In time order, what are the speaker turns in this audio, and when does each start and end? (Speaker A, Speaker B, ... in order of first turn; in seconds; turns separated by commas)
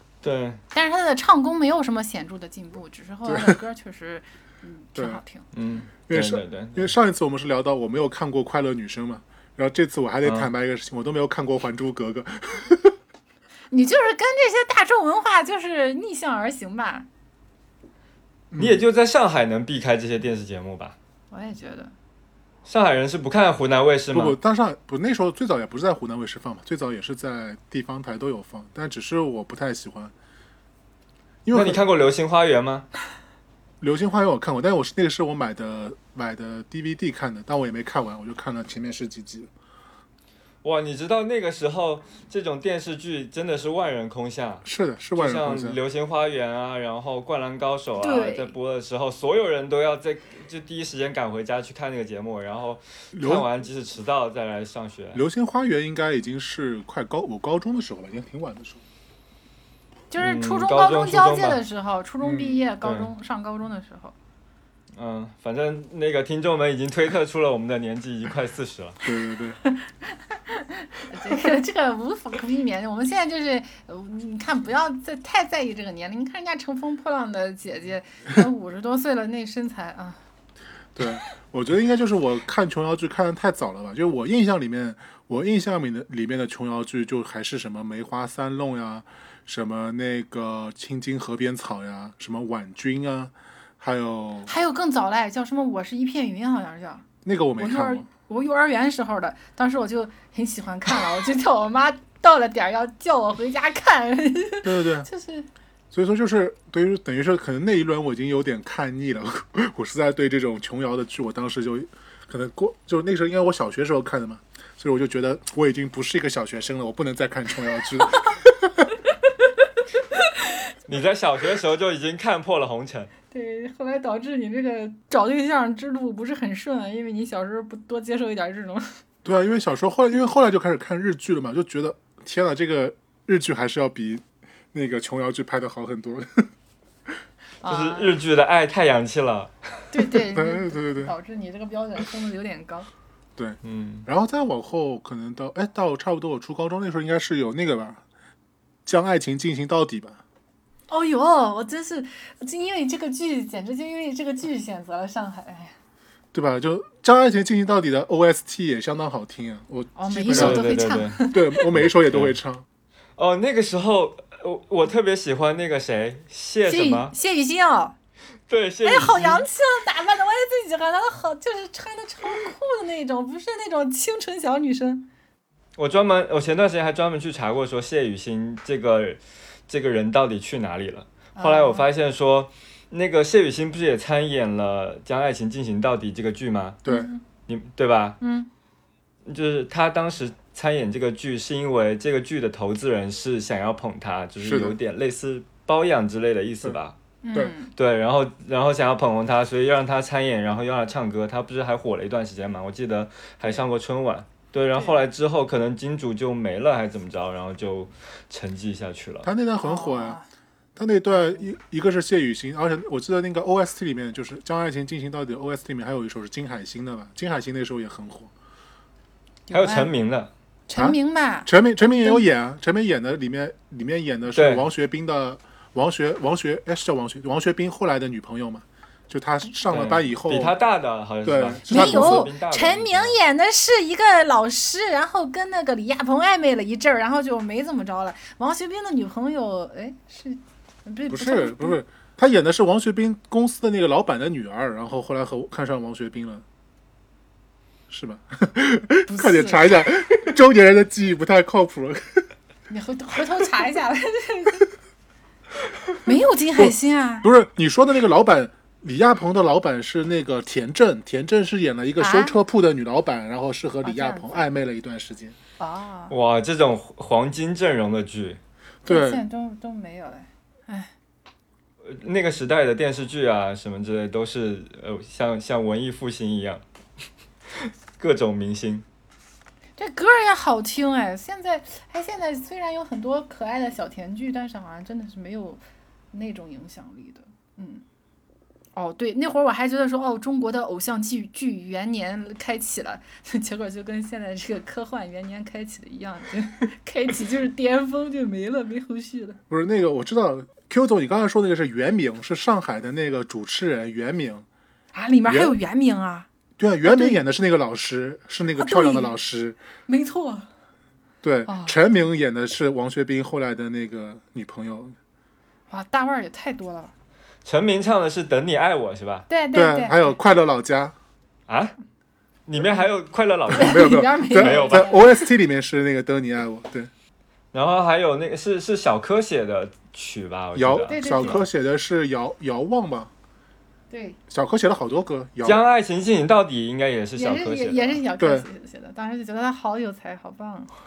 Speaker A: 0.2-0.6, Speaker B: 0.7-5.4, Speaker C: 3.2-3.6, Speaker C: 5.0-5.2, Speaker A: 5.5-6.9, Speaker C: 6.1-12.9, Speaker A: 10.2-10.5, Speaker B: 13.7-17.1, Speaker C: 18.5-18.8, Speaker A: 18.6-20.9, Speaker B: 21.3-21.9, Speaker A: 22.6-24.4, Speaker C: 24.1-30.1, Speaker C: 31.4-31.8, Speaker A: 31.5-32.9, Speaker C: 33.8-39.5, Speaker A: 40.6-55.2, Speaker C: 44.6-45.8, Speaker B: 48.0-48.5, Speaker C: 53.1-53.5, Speaker C: 55.1-58.8, Speaker B: 60.1-64.1, Speaker A: 60.2-61.6, Speaker C: 62.2-62.6, Speaker A: 62.8-63.1, Speaker A: 65.0-69.0, Speaker C: 69.0-69.6, Speaker B: 69.7-80.2, Speaker C: 80.9-94.5, Speaker B: 94.5-97.0, Speaker C: 97.2-98.1, Speaker B: 97.6-105.5, Speaker C: 104.6-105.1, Speaker C: 105.9-118.9, Speaker A: 120.9-123.1, Speaker B: 123.3-128.9, Speaker C: 129.2-136.5, Speaker B: 137.6-138.1, Speaker A: 137.7-139.9, Speaker B: 139.9-142.9, Speaker C: 140.3-141.1, Speaker C: 143.4-148.0, Speaker A: 143.6-144.1, Speaker C: 148.8-150.2, Speaker B: 150.9-155.7, Speaker C: 156.3-160.7, Speaker B: 159.9-161.6, Speaker A: 160.3-161.2, Speaker C: 161.3-162.7, Speaker A: 161.7-162.3, Speaker A: 163.2-167.1, Speaker B: 166.6-167.9, Speaker A: 168.5-169.5, Speaker B: 168.8-175.1, Speaker A: 175.8-186.8, Speaker B: 181.3-181.8, Speaker B: 186.8-187.2, Speaker A: 187.5-188.2, Speaker B: 188.2-188.5, Speaker A: 189.2-196.9, Speaker C: 194.4-194.8, Speaker B: 197.2-197.7, Speaker A: 197.7-209.3, Speaker B: 204.8-205.0, Speaker C: 209.2-210.2, Speaker B: 209.6-210.2, Speaker C: 210.8-218.3, Speaker B: 219.5-219.9, Speaker A: 219.5-220.3, Speaker B: 220.7-222.2, Speaker C: 220.7-230.6, Speaker A: 224.3-224.6, Speaker A: 229.7-233.2, Speaker C: 231.2-232.3, Speaker B: 231.7-241.8, Speaker C: 241.1-246.4, Speaker C: 247.9-252.3, Speaker B: 249.1-249.8, Speaker B: 252.7-254.7, Speaker B: 256.0-257.3, Speaker C: 256.6-265.4, Speaker B: 262.0-262.4, Speaker B: 263.8-264.4, Speaker B: 265.6-266.1, Speaker A: 266.1-268.4, Speaker C: 268.8-269.2, Speaker B: 268.9-270.9, Speaker A: 271.8-276.6, Speaker A: 277.6-278.8, Speaker B: 279.8-285.6, Speaker B: 286.1-287.8, Speaker B: 288.7-299.4, Speaker C: 299.5-304.4, Speaker B: 304.9-306.3, Speaker C: 305.3-305.6, Speaker C: 306.6-309.6, Speaker B: 306.8-307.2, Speaker B: 308.6-309.1, Speaker B: 309.9-310.5, Speaker C: 311.2-314.9, Speaker B: 311.4-311.8, Speaker B: 315.7-316.9, Speaker A: 317.4-319.3, Speaker B: 319.3-320.1, Speaker C: 319.5-320.9, Speaker A: 321.5-321.8, Speaker A: 322.5-325.0, Speaker C: 323.5-326.9, Speaker B: 323.5-325.3, Speaker A: 327.5-331.4, Speaker C: 330.5-333.1, Speaker B: 330.9-331.4, Speaker B: 333.9-334.2, Speaker C: 334.3-335.6, Speaker A: 335.4-338.0, Speaker B: 337.1-340.7, Speaker C: 338.2-338.4